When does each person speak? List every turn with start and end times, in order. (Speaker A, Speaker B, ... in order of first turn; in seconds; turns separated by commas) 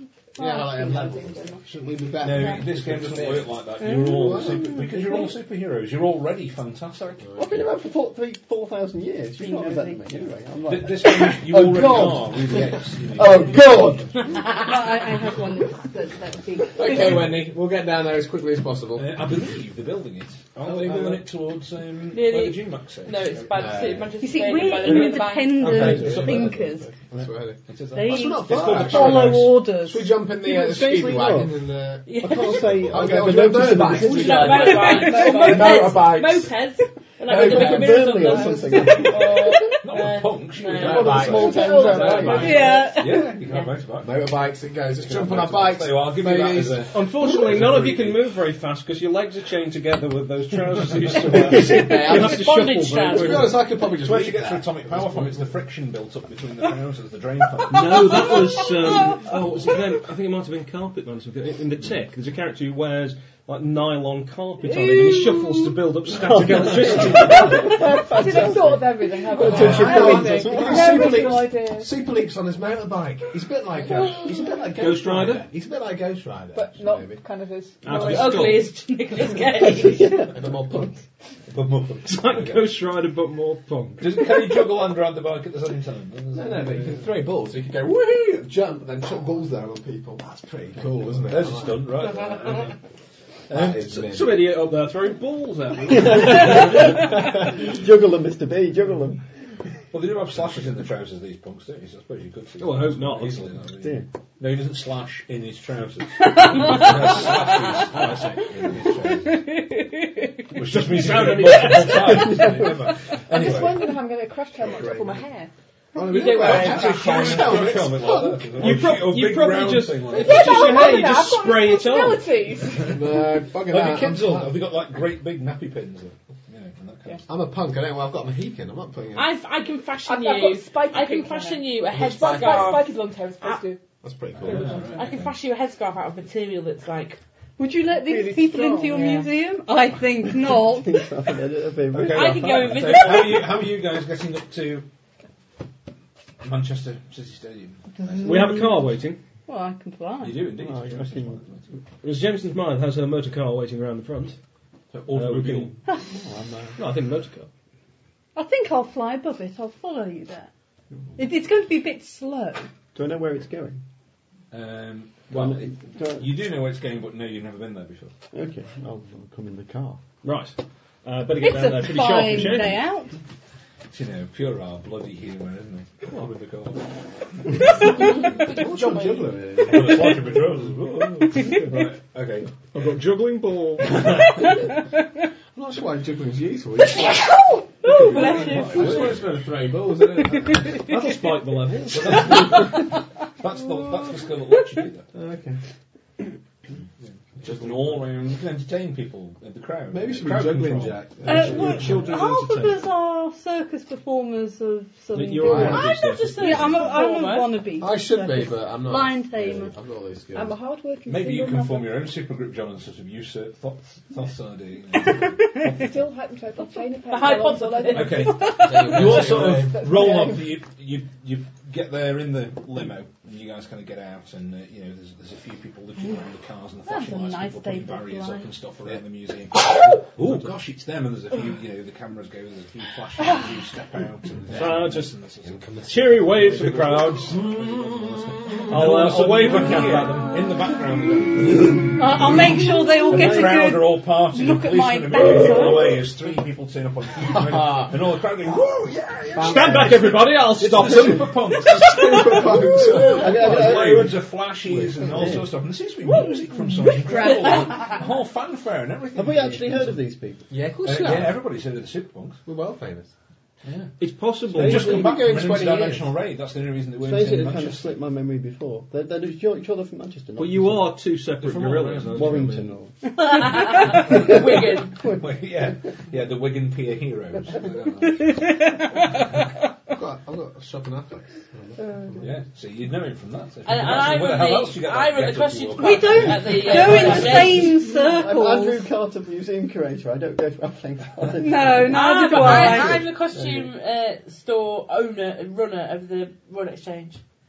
Speaker A: 0.4-1.7, Speaker B: 0.4-4.8, Speaker C: 1.7-7.2, Speaker A: 4.0-5.3, Speaker B: 7.2-7.6, Speaker D: 7.4-14.2, Speaker A: 9.4-10.0, Speaker C: 10.7-14.2, Speaker A: 14.3-17.4, Speaker B: 16.8-19.2, Speaker C: 18.9-23.8, Speaker B: 20.6-21.3, Speaker E: 22.1-25.7, Speaker B: 23.5-24.1, Speaker A: 24.2-27.0, Speaker B: 25.6-36.5, Speaker C: 25.6-26.6, Speaker C: 27.2-29.6, Speaker A: 27.9-30.7, Speaker D: 30.5-31.5, Speaker E: 32.1-32.7, Speaker D: 32.1-35.0, Speaker C: 32.8-33.1, Speaker E: 34.0-41.2, Speaker A: 34.9-35.4, Speaker F: 34.9-35.8, Speaker D: 37.3-39.5, Speaker B: 37.3-38.0, Speaker C: 39.8-41.6, Speaker B: 40.7-42.7, Speaker D: 40.9-42.6, Speaker F: 41.4-42.7, Speaker C: 42.1-44.2, Speaker E: 42.3-43.7, Speaker A: 42.3-43.3, Speaker B: 44.0-47.0, Speaker C: 45.0-48.3, Speaker G: 46.9-53.6, Speaker C: 50.7-52.1, Speaker B: 51.5-55.6, Speaker E: 51.9-53.6, Speaker C: 53.8-58.5, Speaker G: 57.7-67.8, Speaker A: 64.7-65.8, Speaker D: 66.2-71.2, Speaker C: 66.5-67.5, Speaker F: 67.7-72.0, Speaker B: 69.3-77.2, Speaker C: 69.4-71.2, Speaker G: 74.8-75.5, Speaker F: 76.5-78.5, Speaker G: 77.8-78.7, Speaker E: 77.9-80.2, Speaker D: 79.6-80.9, Speaker B: 80.3-81.0, Speaker C: 81.5-82.8, Speaker G: 82.0-84.2, Speaker C: 84.0-87.1, Speaker B: 86.3-92.2, Speaker C: 91.2-92.8, Speaker C: 93.5-94.2, Speaker B: 93.5-94.5, Speaker G: 93.9-97.0, Speaker D: 95.9-99.2, Speaker C: 99.9-109.4, Speaker G: 102.6-103.5, Speaker D: 103.8-104.1, Speaker A: 109.5-109.8, Speaker C: 110.5-114.0, Speaker G: 110.7-112.5, Speaker F: 113.3-115.5, Speaker C: 114.6-115.2, Speaker B: 115.9-118.5, Speaker E: 116.0-117.6, Speaker C: 116.1-120.9, Speaker G: 118.5-122.3, Speaker F: 120.1-123.0, Speaker B: 122.9-124.6, Speaker C: 123.6-127.2, Speaker B: 127.3-129.3, Speaker E: 129.2-133.6, Speaker F: 130.0-133.8, Speaker B: 131.9-132.8, Speaker B: 134.0-134.9, Speaker C: 134.4-135.3, Speaker F: 134.4-135.0, Speaker E: 134.9-137.2, Speaker A: 137.6-141.1, Speaker F: 137.9-139.1, Speaker E: 138.9-139.3, Speaker D: 140.3-142.9, Speaker C: 141.9-144.9, Speaker E: 142.1-143.7, Speaker C: 146.4-148.4, Speaker A: 147.9-148.9, Speaker G: 148.2-149.2, Speaker A: 149.5-150.6, Speaker C: 150.2-151.7, Speaker D: 150.6-151.4, Speaker G: 152.0-154.4, Speaker C: 154.9-155.8, Speaker G: 155.1-155.8, Speaker A: 155.9-156.2, Speaker D: 156.1-156.8, Speaker G: 156.8-157.5, Speaker A: 158.4-160.5, Speaker A: 161.2-162.7, Speaker D: 162.9-163.8, Speaker C: 164.5-168.1, Speaker D: 165.3-166.4, Speaker D: 168.3-170.0, Speaker G: 170.2-172.8, Speaker A: 171.3-173.2, Speaker C: 173.9-176.9, Speaker E: 177.7-179.3, Speaker B: 177.8-180.5, Speaker C: 179.6-182.5, Speaker G: 181.3-181.9, Speaker G: 182.7-184.1, Speaker B: 185.6-187.3, Speaker A: 187.1-189.0, Speaker C: 187.8-189.3, Speaker B: 188.2-190.8, Speaker G: 188.8-189.0, Speaker G: 190.8-192.4, Speaker C: 191.9-195.1, Speaker B: 195.1-195.6, Speaker C: 197.0-202.0, Speaker B: 197.4-198.2, Speaker B: 199.9-201.9, Speaker A: 201.3-209.7, Speaker G: 201.5-202.8, Speaker G: 205.1-206.8, Speaker B: 205.4-205.9, Speaker E: 205.6-207.6, Speaker B: 207.8-210.6, Speaker F: 210.3-212.2, Speaker C: 211.1-216.0, Speaker A: 215.1-215.4, Speaker F: 215.6-220.6, Speaker E: 217.1-218.7, Speaker C: 217.9-259.9, Speaker A: 218.4-218.7, Speaker B: 218.6-219.8, Speaker A: 226.8-228.6, Speaker G: 230.2-230.5, Speaker B: 234.4-234.8, Speaker G: 234.5-235.2, Speaker B: 235.4-236.5, Speaker G: 235.9-237.4, Speaker B: 237.3-238.7, Speaker G: 238.7-240.3, Speaker A: 241.9-246.1, Speaker B: 247.2-248.2, Speaker B: 249.1-250.1, Speaker G: 249.4-251.7, Speaker B: 251.7-255.2, Speaker D: 253.0-254.2, Speaker D: 254.9-255.4, Speaker A: 256.7-257.9, Speaker D: 259.1-260.5, Speaker B: 260.5-261.4, Speaker F: 260.8-261.2, Speaker C: 260.8-262.4, Speaker B: 262.4-263.1, Speaker C: 263.6-263.9, Speaker G: 264.0-265.2, Speaker C: 264.5-267.9, Speaker B: 264.6-266.2, Speaker D: 267.0-271.1, Speaker G: 270.4-272.8, Speaker C: 271.4-272.4, Speaker D: 272.1-273.0, Speaker E: 273.2-275.0, Speaker C: 274.0-278.4, Speaker A: 278.3-279.3, Speaker B: 279.9-282.3, Speaker F: 281.8-282.1, Speaker C: 282.2-287.8, Speaker E: 283.6-287.8, Speaker A: 285.8-288.9, Speaker D: 288.0-293.1, Speaker A: 291.3-293.0, Speaker E: 291.9-297.2, Speaker B: 293.0-293.6